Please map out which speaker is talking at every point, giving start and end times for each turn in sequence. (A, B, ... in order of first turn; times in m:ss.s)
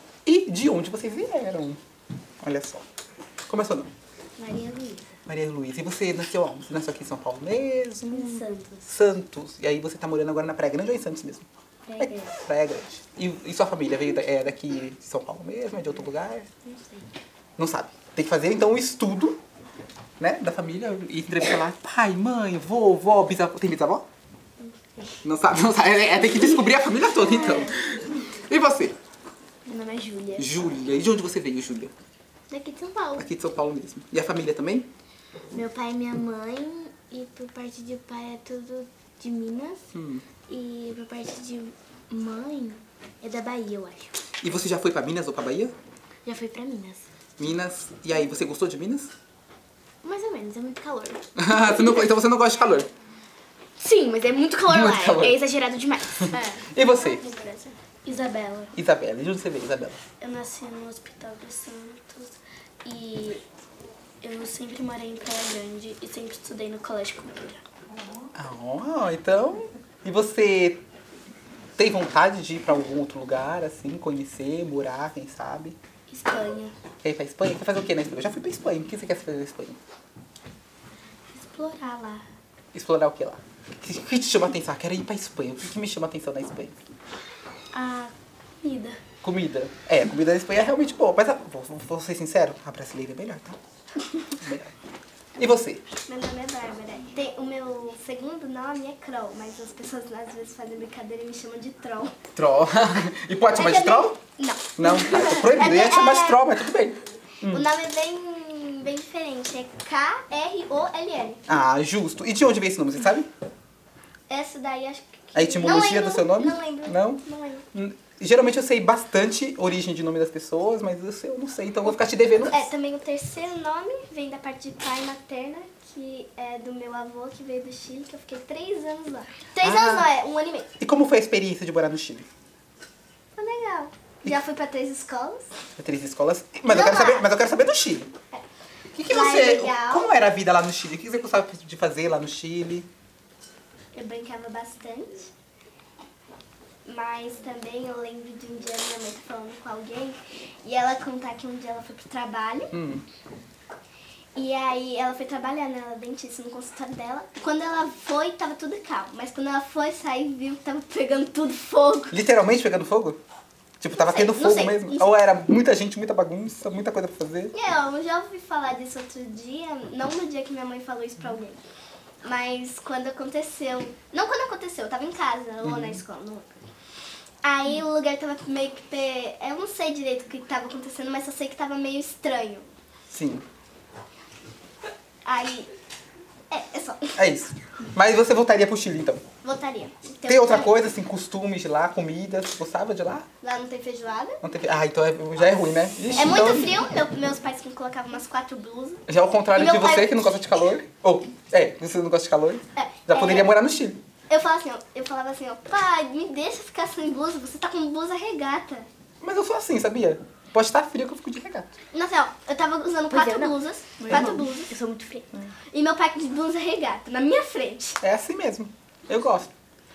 0:00.2-0:01.8 A
0:02.4-0:02.8 A
0:03.5-0:03.9 A
0:04.4-0:05.0 B
0:05.3-0:11.5 A
0:08.1-0:08.8 B
0:11.9-0:12.4 B
0:12.0-0:16.5 A
0:16.6-0:17.1 B
0:17.6-0:19.4 A
0:20.2-0:24.0 A
0:24.6-0:25.1 B
0:25.2-0:29.0 A
0:27.2-0:27.7 B
0:29.6-0:30.6 B
0:30.4-0:31.9 A
0:32.5-0:33.3 B
0:33.2-0:34.9 A
0:35.5-0:39.8 B
0:39.9-0:40.2 A
0:40.5-0:44.1 B
0:44.4-0:45.7 A
0:46.2-0:47.0 B
0:47.4-0:49.1 A
0:50.0-0:51.9 B
0:51.4-0:52.9 A
0:53.8-0:58.7 B
0:54.7-0:55.4 A
0:56.2-0:57.3 A
0:58.7-1:00.0 A
1:00.2-1:03.4 B
1:04.2-1:07.6 B
1:08.3-1:10.8 A
1:11.8-1:15.8 A
1:16.1-1:16.7 B
1:17.0-1:19.8 A
1:21.3-1:22.2 B
1:22.7-1:26.8 A
1:27.7-1:29.0 B
1:29.2-1:33.6 A
1:34.3-1:34.7 A
1:35.4-1:35.8 A
1:36.1-1:42.1 C
1:42.3-1:44.2 A
1:43.5-1:46.4 C
1:44.8-1:47.7 A
1:47.5-1:51.4 C
1:51.5-1:53.3 A
1:54.3-1:57.6 C
1:55.3-1:57.2 A
1:57.7-2:02.7 A
2:02.4-2:10.7 C
2:09.6-2:10.1 A
2:10.8-2:12.3 A
2:13.4-2:15.5 C
2:15.8-2:18.1 A
2:16.7-2:17.3 C
2:18.9-2:22.9 A
2:19.1-2:20.1 C
2:23.9-2:25.3 C
2:26.8-2:32.7 C
2:32.7-2:33.0 A
2:34.4-2:42.1 C
2:42.1-2:43.2 A
2:43.8-2:47.5 A
2:43.9-2:45.1 C
2:47.5-2:51.6 C
2:52.2-2:56.5 C
2:55.6-2:56.0 A
2:57.4-3:02.7 C
3:03.1-3:03.4 A
3:05.2-3:05.7 C
3:06.5-3:07.1 C
3:07.2-3:09.2 A
3:09.4-3:10.7 C
3:10.2-3:13.2 A
3:13.4-3:14.4 C
3:14.4-3:16.8 A
3:16.1-3:20.2 C
3:19.1-3:24.0 A
3:22.8-3:23.5 C
3:24.3-3:28.9 C
3:29.2-3:31.7 A
3:31.9-3:34.7 C
3:33.1-3:35.5 B
3:35.7-3:38.0 C
3:38.0-3:39.5 A